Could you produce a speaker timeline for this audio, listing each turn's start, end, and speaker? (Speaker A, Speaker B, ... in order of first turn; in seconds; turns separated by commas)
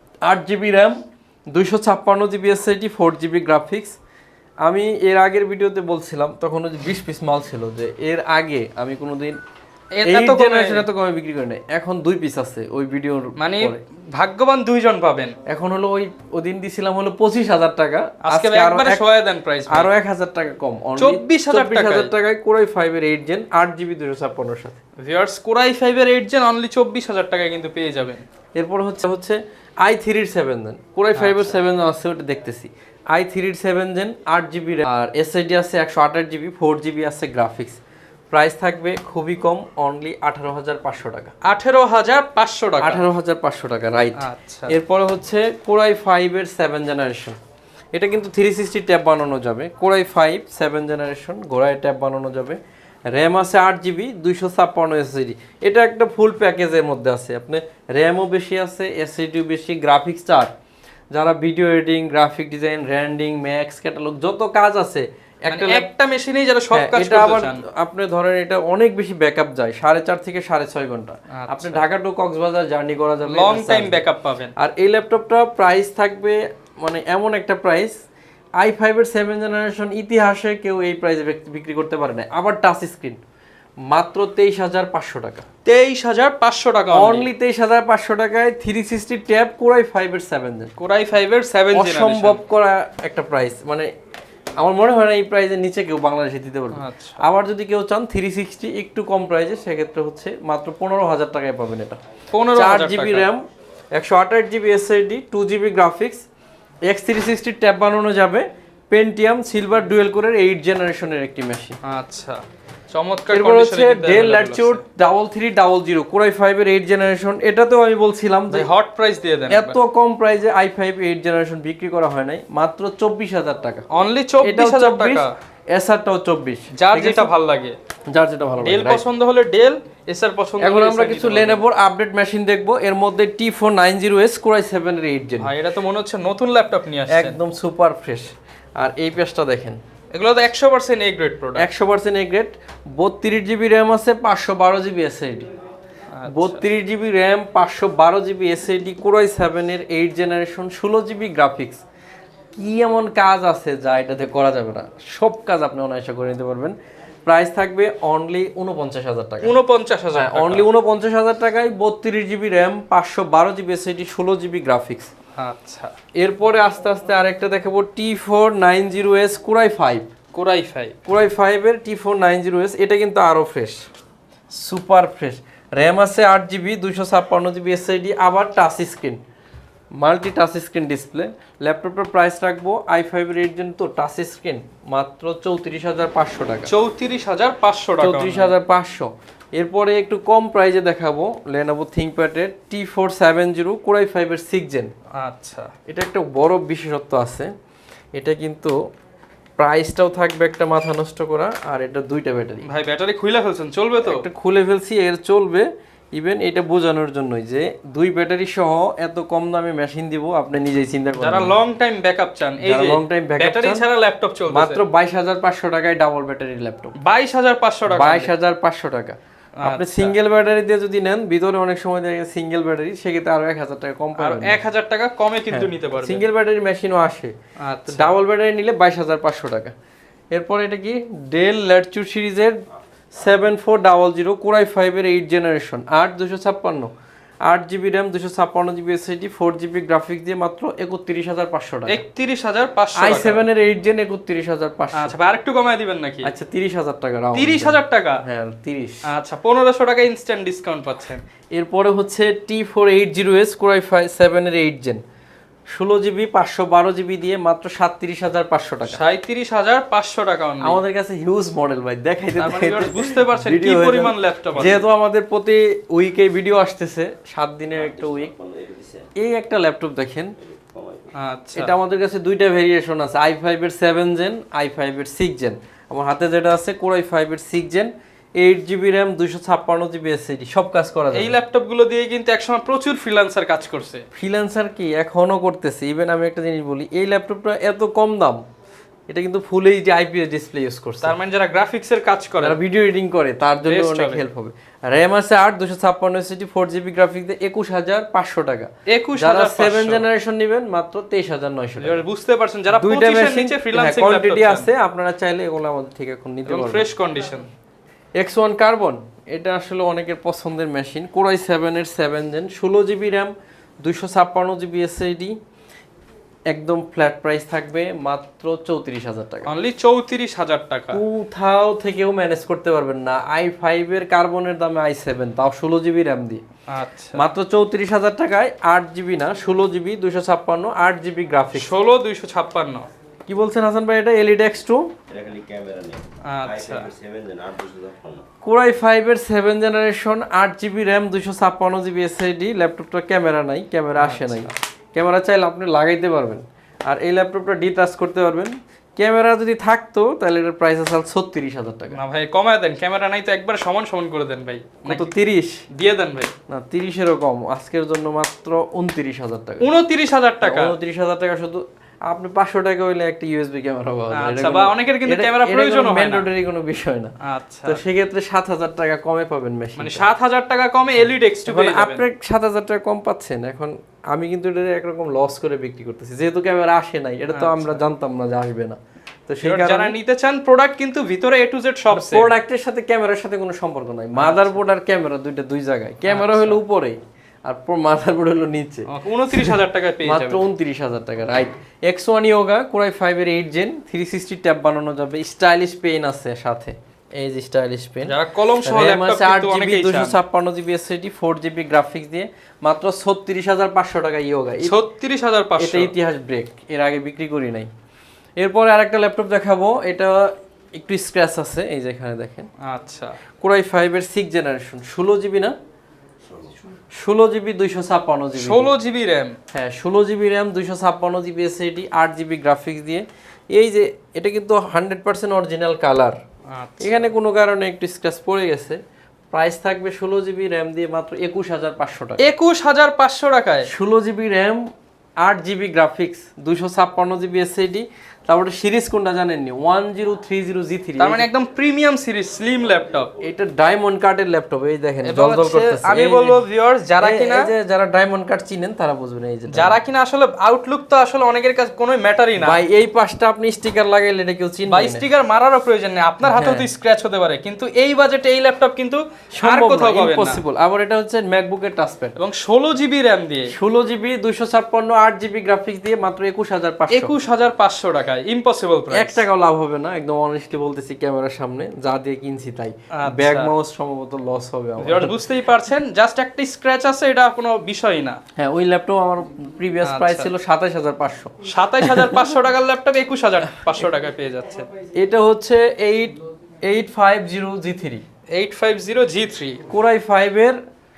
Speaker A: 0.3-1.0, Speaker A: 1.5-4.0, Speaker A: 4.6-9.4, Speaker B: 10.0-10.8, Speaker A: 10.1-13.8, Speaker B: 13.4-15.3, Speaker A: 15.5-19.0, Speaker B: 18.3-19.9, Speaker A: 19.7-24.8, Speaker B: 21.0-22.1, Speaker B: 25.0-28.2, Speaker A: 28.6-37.8, Speaker B: 31.2-31.6, Speaker A: 38.3-41.3, Speaker B: 41.4-43.0, Speaker A: 42.8-47.4, Speaker B: 44.2-44.7, Speaker A: 47.9-52.6, Speaker A: 53.1-60.5, Speaker A: 61.1-65.9, Speaker B: 65.5-67.6, Speaker A: 66.7-74.0, Speaker B: 71.3-71.8, Speaker B: 73.3-74.5, Speaker A: 74.6-78.0, Speaker A: 78.6-83.2, Speaker A: 83.9-85.5, Speaker B: 85.7-87.3, Speaker A: 86.9-90.7, Speaker B: 90.8-92.4, Speaker A: 91.7-93.9, Speaker A: 94.6-102.0, Speaker B: 96.8-97.2, Speaker B: 102.3-103.3, Speaker A: 102.5-106.2, Speaker A: 106.9-111.8, Speaker B: 111.8-112.4, Speaker B: 112.9-114.8, Speaker A: 113.3-118.7, Speaker B: 118.5-119.8, Speaker A: 119.5-123.9, Speaker B: 123.9-125.3, Speaker A: 124.4-127.3, Speaker B: 126.8-127.8, Speaker A: 128.1-129.1, Speaker B: 128.6-131.6, Speaker A: 130.6-135.5, Speaker B: 135.4-137.4, Speaker A: 137.1-139.8, Speaker B: 140.1-141.7, Speaker A: 141.6-145.5, Speaker B: 146.1-146.6, Speaker A: 146.3-151.8, Speaker A: 152.6-159.6, Speaker B: 159.4-160.7, Speaker A: 160.2-165.1, Speaker B: 165.4-165.9, Speaker A: 166.2-170.1, Speaker B: 170.3-170.9, Speaker A: 171.1-173.8, Speaker A: 174.5-179.2, Speaker A: 180.0-186.7, Speaker B: 186.7-188.5, Speaker A: 188.0-194.9, Speaker B: 195.1-195.7, Speaker A: 195.9-197.5, Speaker A: 198.2-198.7, Speaker A: 199.6-202.7, Speaker B: 202.7-204.2, Speaker A: 204.0-211.6, Speaker B: 211.2-214.8, Speaker A: 212.6-213.8, Speaker A: 214.5-216.9, Speaker B: 217.0-218.3, Speaker A: 217.9-224.6, Speaker B: 219.6-220.1, Speaker B: 224.2-226.2, Speaker A: 225.5-227.3, Speaker B: 227.6-228.1, Speaker A: 227.9-229.7, Speaker A: 230.3-232.6, Speaker A: 233.1-236.9, Speaker A: 237.5-242.0, Speaker B: 241.9-243.4, Speaker A: 243.0-245.1, Speaker B: 245.0-246.3, Speaker A: 246.2-249.1, Speaker B: 247.3-248.2, Speaker B: 249.1-251.2, Speaker A: 251.5-255.0, Speaker A: 255.7-259.0, Speaker B: 258.9-260.8, Speaker A: 260.6-268.3, Speaker B: 262.4-264.9, Speaker C: 267.8-269.1, Speaker A: 269.2-270.4, Speaker C: 270.4-271.1, Speaker B: 271.2-271.7, Speaker A: 271.6-281.4, Speaker B: 281.1-284.0, Speaker A: 284.2-288.4, Speaker A: 289.1-291.1, Speaker B: 291.0-292.6, Speaker A: 292.4-302.0, Speaker B: 293.7-294.2, Speaker B: 298.9-300.1, Speaker B: 301.8-304.7, Speaker A: 302.7-306.9, Speaker B: 306.5-307.5, Speaker A: 308.2-313.3, Speaker A: 313.8-315.4, Speaker A: 316.5-319.5, Speaker B: 319.5-321.0, Speaker A: 320.9-326.4, Speaker B: 326.7-327.2, Speaker A: 327.1-331.7, Speaker B: 331.6-332.9, Speaker A: 333.3-334.9, Speaker C: 335.1-338.3, Speaker B: 336.3-336.9, Speaker A: 338.4-352.0, Speaker B: 344.0-344.5, Speaker B: 352.0-355.1, Speaker A: 354.9-355.6, Speaker B: 355.7-356.3, Speaker A: 356.5-359.7, Speaker B: 359.6-360.8, Speaker A: 360.4-367.1, Speaker B: 364.1-366.2, Speaker B: 367.2-367.8, Speaker A: 367.7-370.0, Speaker B: 369.8-372.0, Speaker A: 371.5-379.9, Speaker B: 377.3-377.8, Speaker B: 379.4-382.3, Speaker A: 381.9-404.8, Speaker B: 384.2-384.6, Speaker B: 386.1-386.6, Speaker B: 388.9-390.4, Speaker B: 398.1-400.2, Speaker B: 404.6-405.9, Speaker A: 405.6-407.7, Speaker A: 408.4-412.5, Speaker B: 412.6-413.2, Speaker A: 413.4-415.6, Speaker A: 416.9-418.7, Speaker B: 418.4-419.4, Speaker A: 419.5-426.2, Speaker B: 426.5-426.9, Speaker A: 426.8-428.8, Speaker A: 429.3-432.3, Speaker B: 432.2-433.7, Speaker A: 433.7-434.7, Speaker A: 435.2-441.3, Speaker B: 441.0-443.1, Speaker A: 443.2-446.4, Speaker B: 445.1-447.5, Speaker A: 447.0-449.8, Speaker B: 449.5-452.6, Speaker A: 452.4-455.1, Speaker B: 454.7-460.4, Speaker A: 456.2-456.7, Speaker A: 459.4-462.2, Speaker B: 462.2-463.5, Speaker A: 463.5-467.1, Speaker B: 466.9-469.2, Speaker A: 468.9-475.2, Speaker B: 472.9-473.5, Speaker B: 474.8-478.2, Speaker A: 478.4-482.2, Speaker B: 479.8-480.3, Speaker B: 481.5-484.7, Speaker A: 484.9-488.0, Speaker B: 488.3-489.6, Speaker A: 489.7-490.6